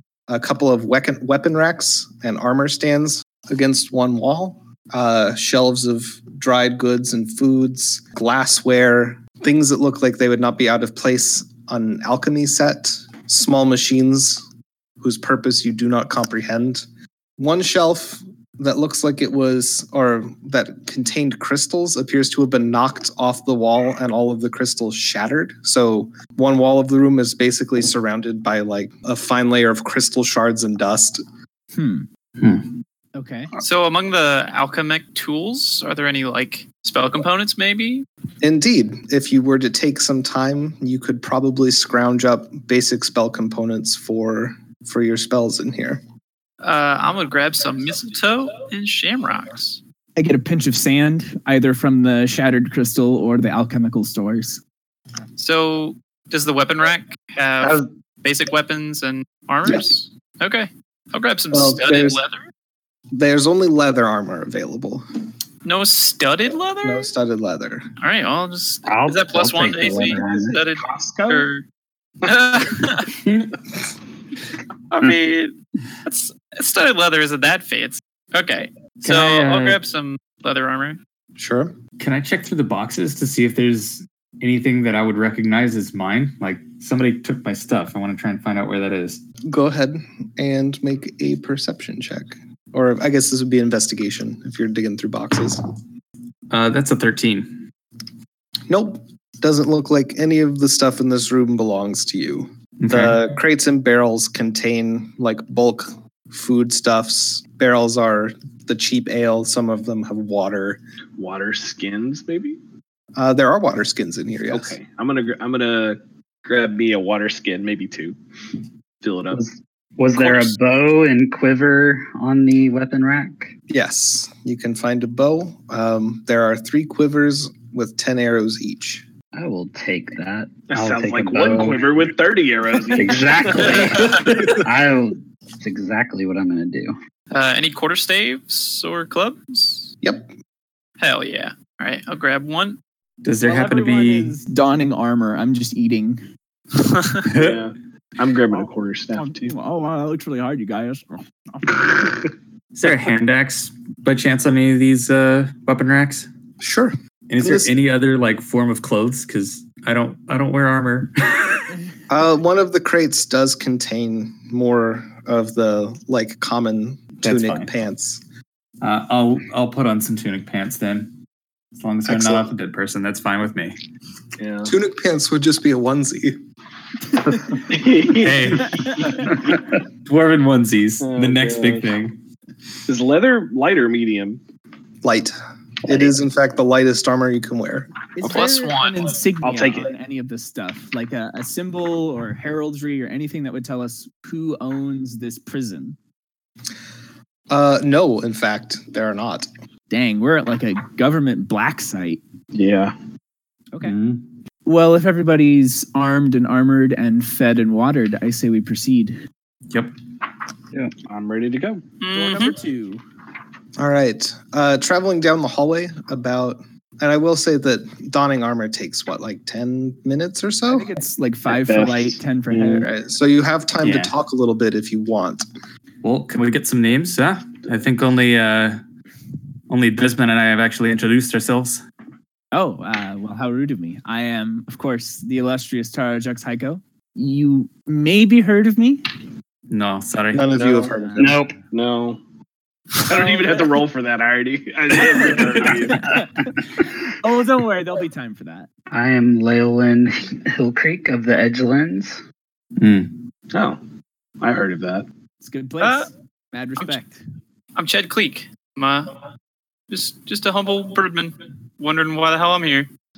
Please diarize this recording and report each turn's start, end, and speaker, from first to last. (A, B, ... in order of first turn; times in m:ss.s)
0:00.3-0:14.5 A
0:15.0-0:16.9 A
0:17.4-0:31.2 A
0:31.7-0:32.1 B
0:33.2-0:33.6 B
0:33.6-0:38.1 C
0:38.4-0:46.0 A
0:46.6-0:49.8 C
0:50.2-0:54.6 B
0:55.4-1:02.4 C
1:01.5-1:02.2 A
1:03.1-1:05.0 A
1:05.6-1:07.1 C
1:06.8-1:07.9 A
1:08.0-1:11.6 C
1:08.8-1:10.6 D
1:10.0-1:10.6 B
1:11.2-1:11.5 B
1:12.2-1:13.2 C
1:14.9-1:21.0 C
1:19.0-1:19.8 E
1:21.4-1:21.8 A
1:22.0-1:29.2 E
1:29.5-1:35.6 A
1:36.5-1:37.6 E
1:38.7-1:50.8 A
1:42.8-1:43.2 E
1:51.2-1:52.6 F
1:53.2-1:54.8 A
1:54.5-1:58.2 F
1:59.0-1:59.5 F
1:59.3-2:03.5 D
2:00.1-2:00.5 F
2:03.7-2:09.1 A
2:09.3-2:12.0 D
2:10.7-2:14.4 F
2:12.9-2:17.0 D
2:17.3-2:19.9 C
2:20.0-2:20.3 A
2:21.0-2:22.8 C
2:23.2-2:24.4 E
2:23.4-2:26.2 B
2:27.2-2:27.6 E
2:27.2-2:29.5 F
2:29.1-2:32.2 B
2:32.8-2:36.3 E
2:36.6-2:37.7 A
2:37.3-2:41.6 E
2:42.1-2:48.2 A
2:47.2-2:47.7 E
2:48.8-2:51.1 E
2:51.8-2:53.8 E
2:52.1-2:52.5 A
2:54.4-2:54.7 F
2:54.6-2:56.4 A
2:57.6-2:59.3 F
2:58.1-3:02.2 E
3:01.0-3:01.9 F
3:02.9-3:04.4 F
3:05.0-3:08.0 A
3:08.2-3:16.0 B
3:08.2-3:09.2 C
3:09.4-3:09.9 F
3:17.5-3:19.5 A
3:19.9-3:22.2 B
3:22.5-3:23.0 F
3:23.7-3:24.0 B
3:23.8-3:24.2 E
3:24.6-3:29.2 B
3:31.1-3:32.0 F
3:32.0-3:32.5 C
3:32.1-3:33.0 B
3:33.8-3:40.9 A
3:40.7-3:42.9 B
3:41.5-3:42.8 F
3:42.8-3:45.5 A
3:43.8-3:44.1 E
3:46.0-3:48.8 E
3:49.7-3:51.8 E
3:52.5-3:59.1 B
3:59.7-4:00.5 E
4:00.3-4:01.4 A
4:00.5-4:02.2 F
4:01.0-4:01.6 B
4:01.2-4:01.5 D
4:03.0-4:06.1 F
4:03.2-4:03.7 B
4:05.1-4:06.5 B
4:07.2-4:08.7 B
4:08.9-4:12.2 D
4:12.8-4:13.2 E
4:13.5-4:13.8 F
4:14.4-4:15.1 F
4:15.4-4:17.2 B
4:15.8-4:16.1 C
4:17.8-4:19.1 C
4:19.9-4:22.9 C